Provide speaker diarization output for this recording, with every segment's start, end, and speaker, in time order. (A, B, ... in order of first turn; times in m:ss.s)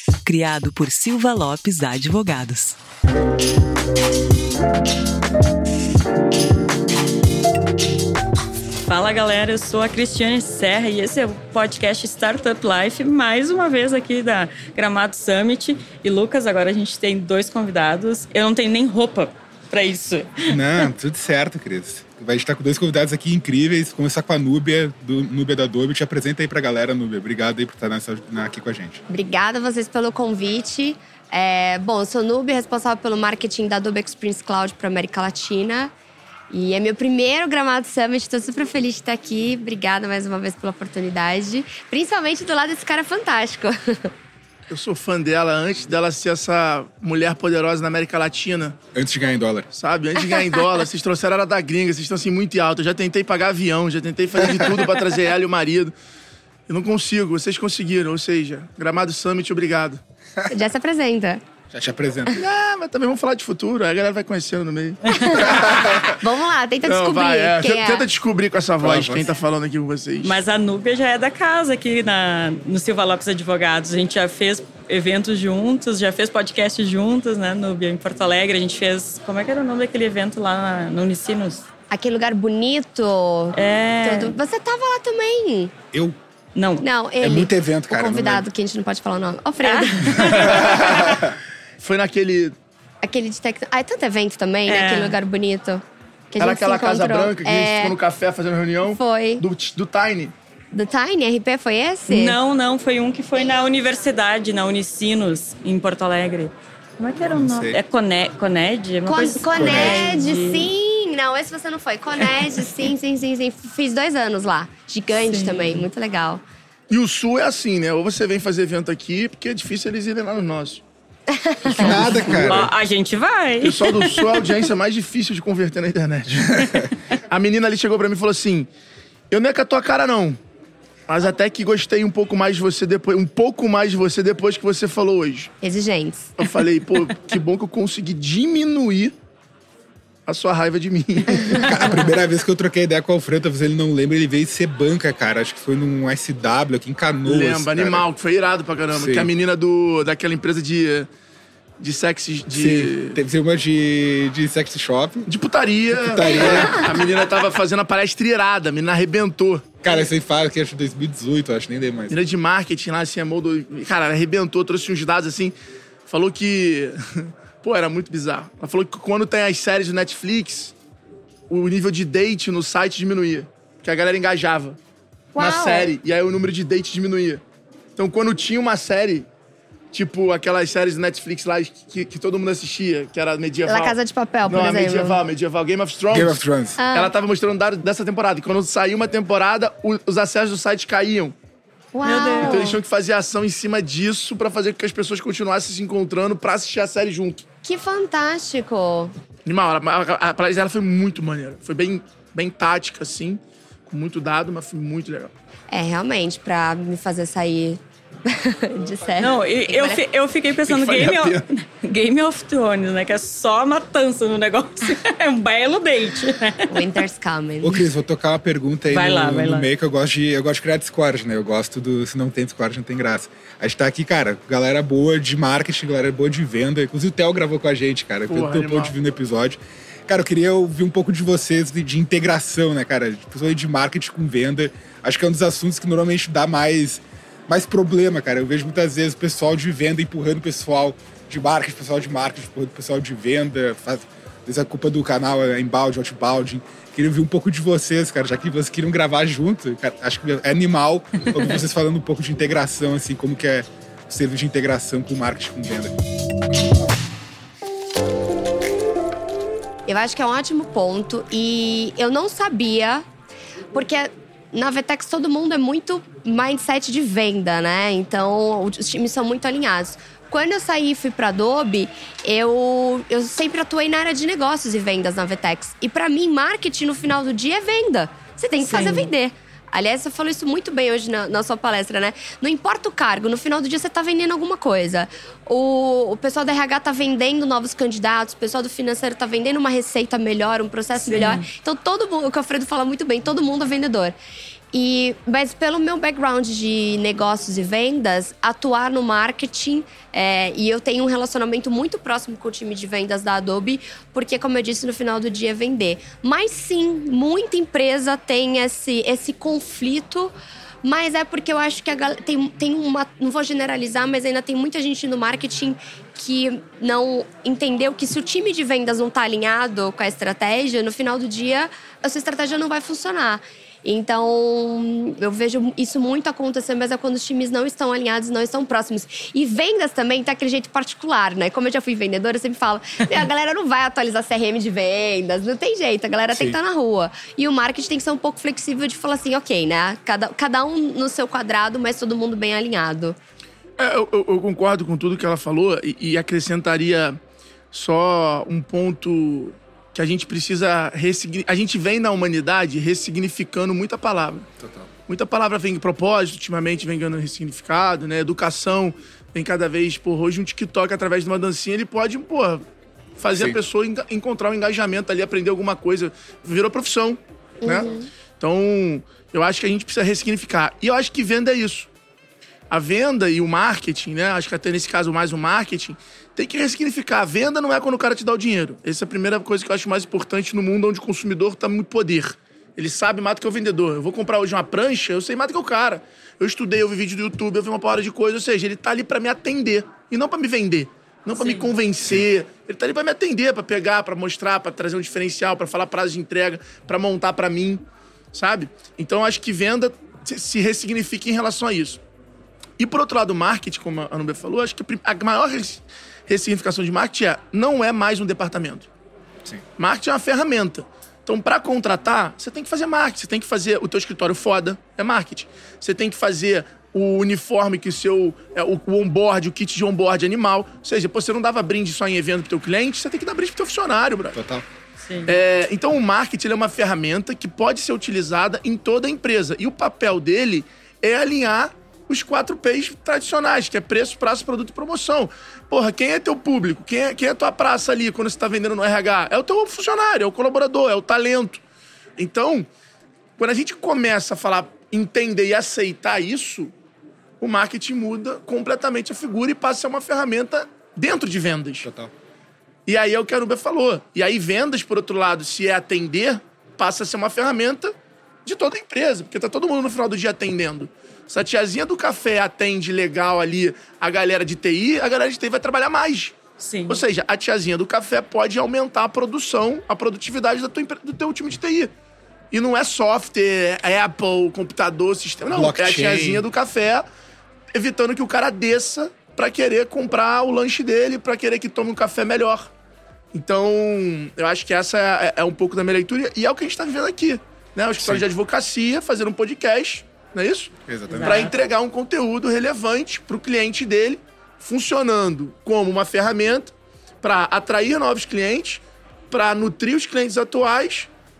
0:00.2-0:02.8 A
0:08.8-0:20.8 B
0:20.4-0:29.0 C
0:29.1-0:35.9 D
0:36.5-0:44.1 D
0:44.7-0:48.8 E
0:48.9-0:49.7 C
0:49.7-0:55.9 E
0:56.7-1:00.0 E
1:00.4-1:00.7 C
1:00.5-1:01.4 D
1:01.7-1:02.3 C
1:02.3-1:06.1 E
1:05.1-1:08.1 D
1:05.4-1:06.1 C
1:06.8-1:10.4 E
1:08.8-1:09.2 C
1:10.2-1:21.7 B
1:21.9-1:25.7 D
1:23.5-1:24.3 B
1:26.5-1:26.8 B
1:26.8-1:30.6 D
1:27.2-1:28.4 C
1:29.6-1:30.5 B
1:30.1-1:31.2 E
1:30.6-1:31.3 C
1:31.8-1:32.5 E
1:33.0-1:38.0 D
1:34.6-1:35.2 B
1:36.4-1:40.3 E
1:38.8-1:39.4 D
1:40.7-1:42.4 D
1:42.1-1:50.7 B
1:47.3-1:47.8 C
1:49.0-1:56.4 D
1:49.5-1:50.0 C
1:55.2-1:55.8 B
1:56.9-2:00.8 E
2:01.3-2:02.3 D
2:01.7-2:02.7 C
2:01.8-2:04.5 B
2:01.8-2:02.6 E
2:03.6-2:06.6 E
2:06.5-2:06.9 C
2:07.3-2:08.7 E
2:09.3-2:10.4 E
2:11.1-2:15.5 E
2:15.6-2:16.3 D
2:16.4-2:19.1 E
2:20.2-2:21.9 E
2:21.3-2:28.1 C
2:27.2-2:31.1 E
2:28.9-2:29.3 C
2:31.8-2:33.2 E
2:32.5-2:35.3 C
2:35.3-2:39.6 E
2:35.9-2:37.1 C
2:39.8-2:42.2 C
2:42.1-2:45.5 E
2:46.0-2:50.7 E
2:51.5-2:54.8 E
2:55.3-2:55.9 D
2:55.4-2:57.4 E
2:58.0-2:59.3 E
2:59.9-3:06.4 E
3:03.6-3:05.2 D
3:06.1-3:06.8 C
3:06.8-3:07.1 D
3:06.9-3:11.3 E
3:11.9-3:12.8 D
3:12.0-3:12.8 B
3:12.4-3:17.4 E
3:17.6-3:19.1 D
3:19.4-3:25.3 E
3:25.7-3:30.0 D
3:29.2-3:36.9 B
3:30.7-3:31.4 E
3:36.7-3:37.9 D
3:37.6-4:15.9 C
3:38.9-3:39.7 B
3:48.3-3:48.9 E
4:19.9-4:23.0 D
4:23.7-4:54.1 D
4:38.6-4:39.1 B
4:51.1-4:51.4 B
4:54.7-5:10.3 D
5:10.8-5:43.2 D
5:36.3-5:36.6 C
5:43.8-5:47.2 E
5:47.7-5:54.5 E
5:54.6-5:54.9 C
5:55.1-6:02.6 E
6:03.2-6:11.9 E
6:03.3-6:03.6 C
6:07.6-6:08.1 D
6:12.7-6:37.8 E
6:31.3-6:31.7 B
6:38.3-6:42.0 E
6:42.8-6:48.9 E
6:49.8-7:04.4 E
7:04.3-7:04.6 C
7:05.0-7:05.4 B
7:05.3-7:21.6 E
7:22.2-7:22.7 E
7:23.4-7:26.7 E
7:27.4-7:31.9 E
7:31.8-7:32.1 C
7:32.8-7:37.9 E
7:38.4-7:51.9 E
7:46.6-7:47.0 B
7:52.5-7:57.0 E
7:55.5-7:56.4 C
7:57.7-8:02.7 E
8:03.3-8:21.1 E
8:08.0-8:08.2 C
8:10.8-8:11.5 C
8:11.1-8:11.5 B